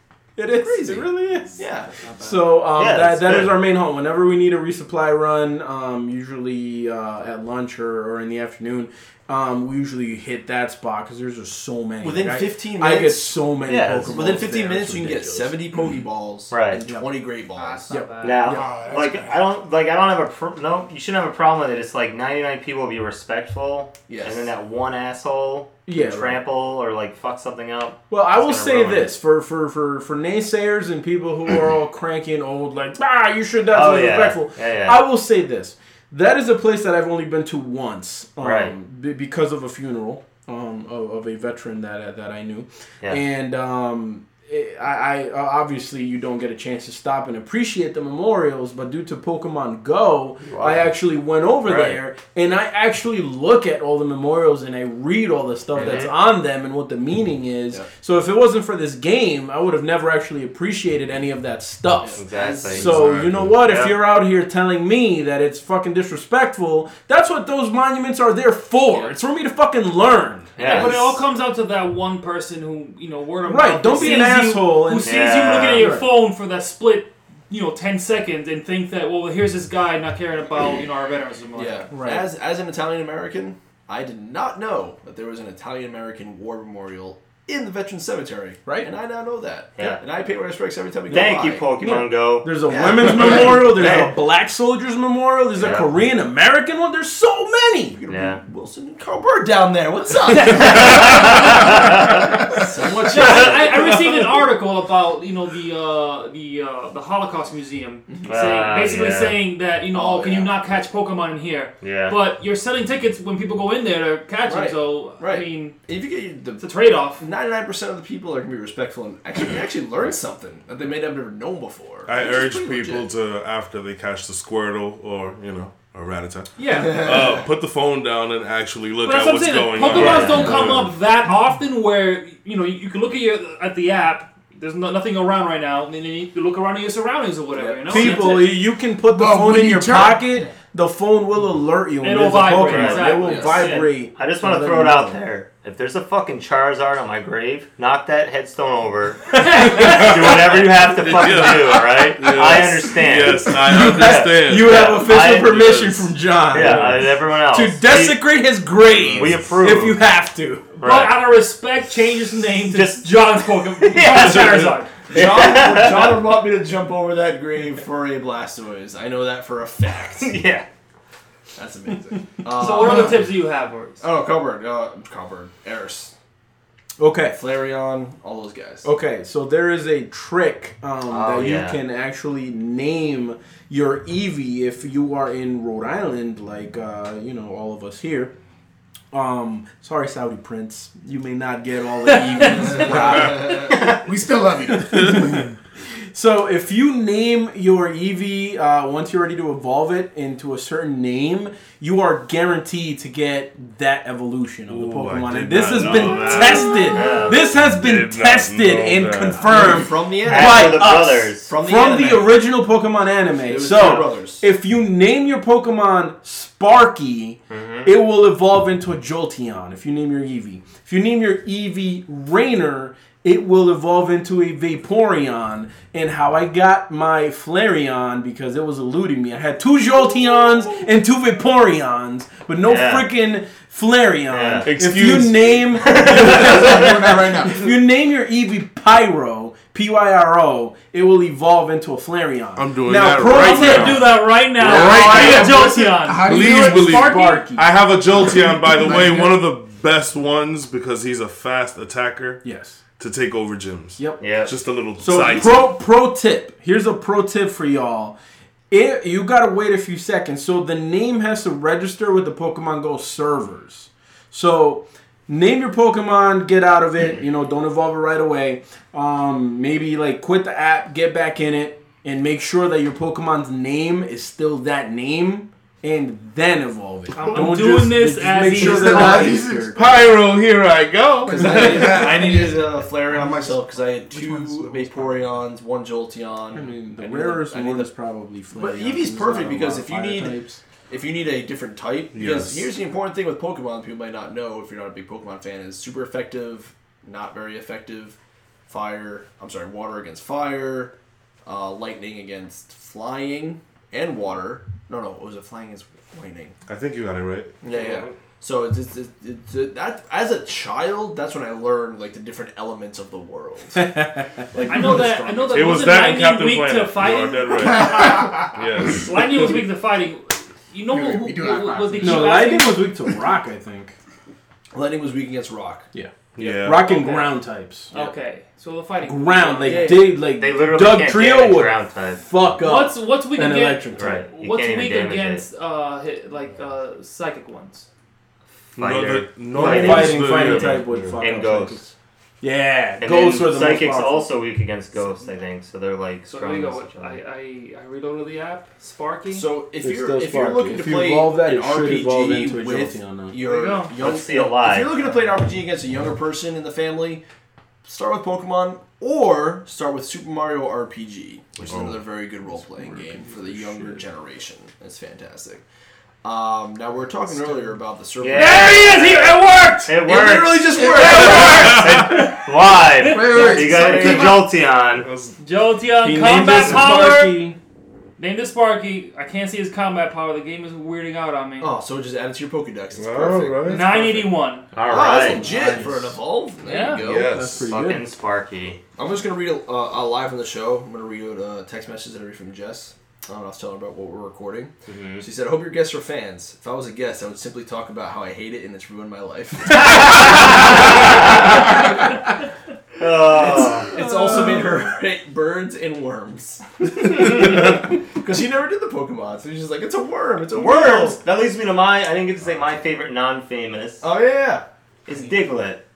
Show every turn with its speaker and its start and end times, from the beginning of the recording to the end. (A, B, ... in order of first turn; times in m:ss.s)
0:00.4-0:01.6 A
0:00.6-0:02.4 B
0:02.2-0:15.6 A
0:02.6-0:03.6 C
0:12.0-0:17.9 B
0:13.6-0:14.4 C
0:16.5-0:16.8 C
0:16.8-0:17.1 A
0:17.6-0:19.0 D
0:17.9-0:18.5 A
0:18.2-0:29.1 C
0:18.4-0:19.4 E
0:24.1-0:24.5 B
0:25.8-0:26.4 A
0:28.1-1:02.2 A
0:33.7-0:35.0 C
0:38.4-0:38.7 C
0:50.4-0:50.9 C
0:51.6-0:52.0 F
0:55.7-0:56.1 C
0:55.8-0:56.1 B
1:02.0-1:02.9 B
1:02.2-1:03.0 C
1:02.7-1:03.6 F
1:02.7-1:10.9 A
1:03.6-1:04.0 C
1:08.9-1:09.2 B
1:10.6-1:11.1 C
1:10.6-1:21.9 D
1:13.4-1:16.1 A
1:13.9-1:14.2 B
1:15.0-1:15.9 C
1:21.5-1:32.1 B
1:21.9-1:22.3 A
1:29.8-1:30.0 C
1:31.1-1:34.1 C
1:32.4-1:38.0 A
1:32.6-1:34.1 B
1:35.6-1:35.9 C
1:38.0-1:41.7 B
1:38.1-1:38.4 C
1:40.3-1:41.6 D
1:40.4-1:42.6 C
1:42.5-1:43.9 B
1:43.0-1:55.8 D
1:43.2-1:44.1 C
1:48.3-1:49.4 C
1:49.9-1:50.5 B
1:51.8-1:52.2 C
1:54.4-2:03.1 B
1:56.6-1:57.2 D
2:02.0-2:10.9 F
2:06.6-2:07.5 B
2:06.6-2:07.1 D
2:09.0-2:18.5 D
2:09.9-2:10.8 B
2:10.0-2:10.4 C
2:17.5-2:18.3 B
2:17.9-2:25.2 A
2:19.1-2:20.2 E
2:22.0-2:23.9 D
2:22.6-2:38.3 C
2:23.2-2:23.8 B
2:29.3-2:30.5 D
2:29.8-2:30.1 F
2:30.8-2:34.8 F
2:33.6-2:40.7 A
2:36.5-2:37.1 F
2:38.9-2:39.4 F
2:39.1-2:40.0 C
2:40.8-2:41.2 C
2:40.8-2:45.0 D
2:42.7-2:46.3 C
2:45.1-2:50.4 B
2:50.0-2:50.6 C
2:51.6-2:53.4 B
2:52.4-2:54.0 D
2:54.0-2:56.1 B
2:57.0-2:57.4 A
2:57.3-2:58.8 B
2:58.8-3:08.3 A
3:01.1-3:01.8 C
3:09.1-3:13.6 A
3:12.4-3:13.7 B
3:13.7-3:14.0 C
3:14.0-3:15.3 E
3:15.0-3:15.4 A
3:16.1-4:04.1 A
3:24.7-3:29.8 F
3:26.3-3:27.4 C
3:29.4-3:30.9 B
3:30.2-3:31.5 C
3:31.4-3:32.5 B
3:33.4-3:34.4 B
3:37.5-3:37.9 C
3:52.6-3:53.1 C
3:54.3-3:54.7 C
3:54.6-3:55.8 F
3:55.8-3:56.9 C
3:56.0-3:57.7 E
4:02.6-4:12.4 F
4:03.2-4:07.4 D
4:04.6-4:07.0 E
4:06.2-4:07.7 A
4:08.7-4:09.4 E
4:12.4-4:12.8 A
4:13.0-4:15.7 F
4:14.2-4:14.5 C
4:15.0-4:18.2 A
4:18.7-4:39.9 A
4:37.2-4:39.4 D
4:37.2-4:37.5 E
4:38.5-4:40.0 E
4:39.7-4:42.3 F
4:41.2-4:43.6 E
4:41.3-4:47.9 B
4:44.1-4:45.1 A
4:46.5-4:50.6 A
4:48.5-4:58.2 B
4:52.1-4:52.7 F
4:58.7-5:00.9 B
5:01.4-5:06.6 B
5:06.7-5:08.1 F
5:07.6-5:15.9 B
5:13.7-5:14.4 A
5:14.6-5:22.8 D
5:15.5-5:19.6 F
5:17.6-5:18.6 E
5:20.9-5:23.2 E
5:22.0-5:23.9 A
5:24.7-5:25.9 B
5:25.9-5:27.9 A
5:26.3-5:27.0 F
5:26.8-5:27.4 D
5:27.9-5:30.1 D
5:29.0-5:34.2 A
5:29.6-5:30.2 B
5:30.1-5:32.2 C
5:32.6-5:37.9 D
5:33.9-5:35.4 C
5:38.8-5:41.2 F
5:38.8-5:41.9 C
5:39.5-5:41.9 A
5:42.4-5:44.3 A
5:43.0-5:47.2 C
5:46.3-5:49.5 D
5:49.3-5:57.2 B
5:49.8-5:53.4 A
5:53.4-5:54.0 D
5:53.9-5:55.1 C
5:57.8-6:05.6 B
6:02.5-6:04.0 A
6:06.2-6:08.9 B
6:07.4-6:07.6 A
6:08.2-6:15.1 C
6:08.3-6:10.0 D
6:10.0-6:11.9 B
6:10.8-6:12.3 D
6:11.5-6:12.0 F
6:12.8-6:14.3 D
6:13.0-6:14.5 E
6:14.9-6:15.4 F
6:15.4-6:17.5 D
6:16.0-6:17.6 A
6:18.2-6:21.8 D
6:21.6-6:27.4 B
6:22.9-6:24.1 F
6:23.7-6:24.7 D
6:24.7-6:25.8 C
6:25.3-6:26.1 A
6:26.6-6:28.1 A
6:27.0-6:27.7 F
6:27.7-6:28.8 C
6:29.0-6:41.9 B
6:34.8-6:35.2 C
6:40.7-6:41.7 C
6:43.0-6:43.9 C
6:43.2-6:51.2 B
6:44.3-6:44.6 D
6:50.5-6:54.0 C
6:54.0-6:54.6 B
6:55.1-6:55.8 C